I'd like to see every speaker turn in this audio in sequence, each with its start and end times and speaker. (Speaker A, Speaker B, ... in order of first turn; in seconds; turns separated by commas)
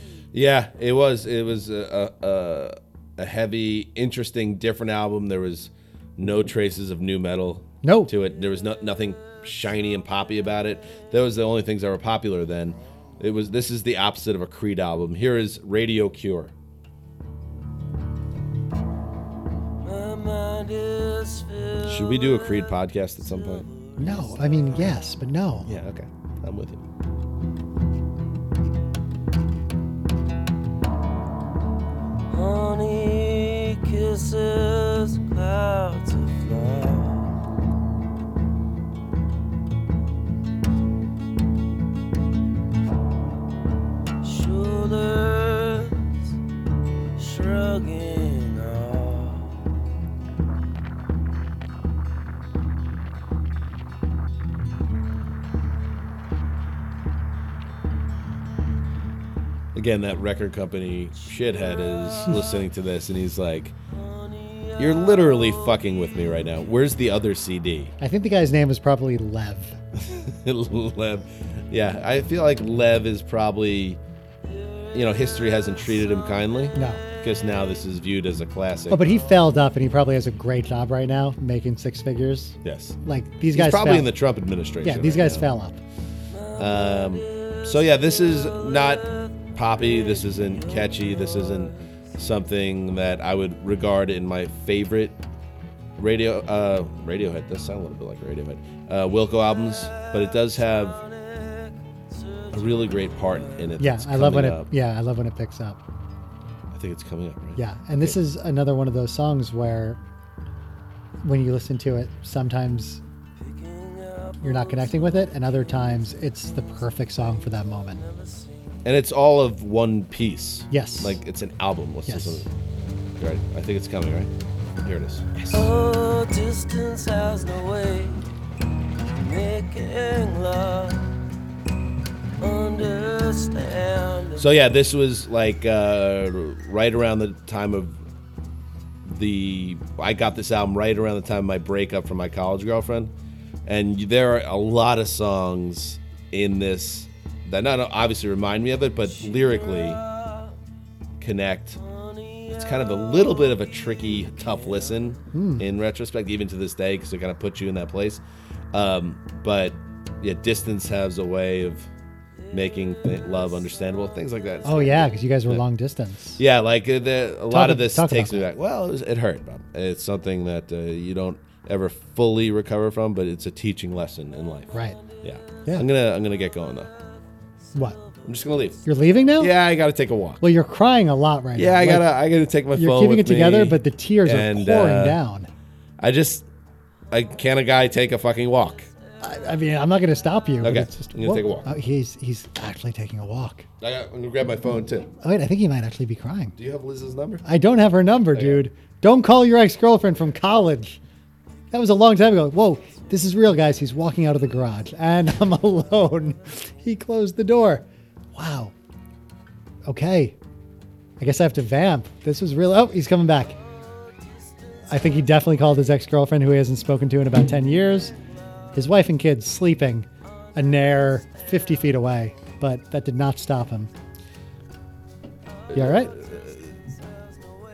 Speaker A: 0.3-16.5, Speaker B: 7.8-8.1, Speaker C: 19.8-22.6, Speaker A: 21.9-23.7, Speaker C: 23.4-24.8, Speaker B: 24.0-25.7, Speaker A: 25.6-26.8, Speaker C: 32.3-37.3, Speaker C: 44.2-46.1, Speaker C: 47.2-49.6, Speaker A: 59.7-63.8, Speaker A: 64.8-67.9, Speaker B: 68.0-69.8, Speaker A: 69.9-74.0, Speaker A: 74.9-79.0, Speaker B: 76.7-77.0, Speaker B: 78.9-84.1, Speaker A: 82.6-83.0, Speaker A: 83.5-85.5, Speaker B: 84.8-85.8, Speaker C: 86.5-87.2, Speaker A: 86.6-95.2, Speaker C: 88.4-89.0, Speaker C: 90.3-90.8, Speaker A: 96.0-101.0, Speaker C: 101.3-101.7, Speaker A: 102.5-104.7, Speaker B: 103.8-105.8, Speaker A: 106.7-108.2, Speaker B: 107.6-110.0, Speaker B: 111.2-113.0, Speaker C: 113.4-114.7, Speaker B: 114.4-118.0, Speaker A: 118.8-122.5, Speaker B: 120.7-121.2, Speaker B: 122.0-122.4, Speaker A: 123.2-124.3, Speaker A: 124.8-125.7, Speaker C: 125.5-128.2, Speaker C: 129.2-131.1, Speaker C: 132.4-134.4, Speaker A: 134.4-138.0, Speaker A: 139.0-143.1, Speaker A: 143.7-150.0, Speaker A: 151.2-151.8, Speaker A: 152.5-158.2, Speaker B: 155.3-155.6, Speaker A: 158.7-161.9, Speaker A: 162.5-165.6, Speaker B: 164.6-166.4, Speaker A: 166.4-176.9, Speaker B: 167.5-168.5, Speaker B: 174.7-175.0, Speaker A: 178.2-178.8, Speaker B: 178.8-179.5, Speaker A: 179.4-180.4, Speaker B: 180.4-182.1, Speaker A: 181.5-185.2, Speaker B: 182.7-185.5, Speaker A: 186.0-186.4, Speaker A: 187.1-188.9, Speaker B: 189.2-193.7, Speaker A: 190.6-191.7, Speaker A: 193.8-195.1, Speaker B: 195.2-196.5, Speaker A: 196.6-197.4, Speaker B: 197.4-201.0, Speaker A: 198.3-198.6, Speaker B: 201.7-208.7, Speaker B: 209.9-210.3, Speaker B: 211.2-213.6, Speaker B: 214.9-218.1, Speaker B: 218.7-223.9, Speaker A: 225.7-226.6, Speaker B: 225.7-226.1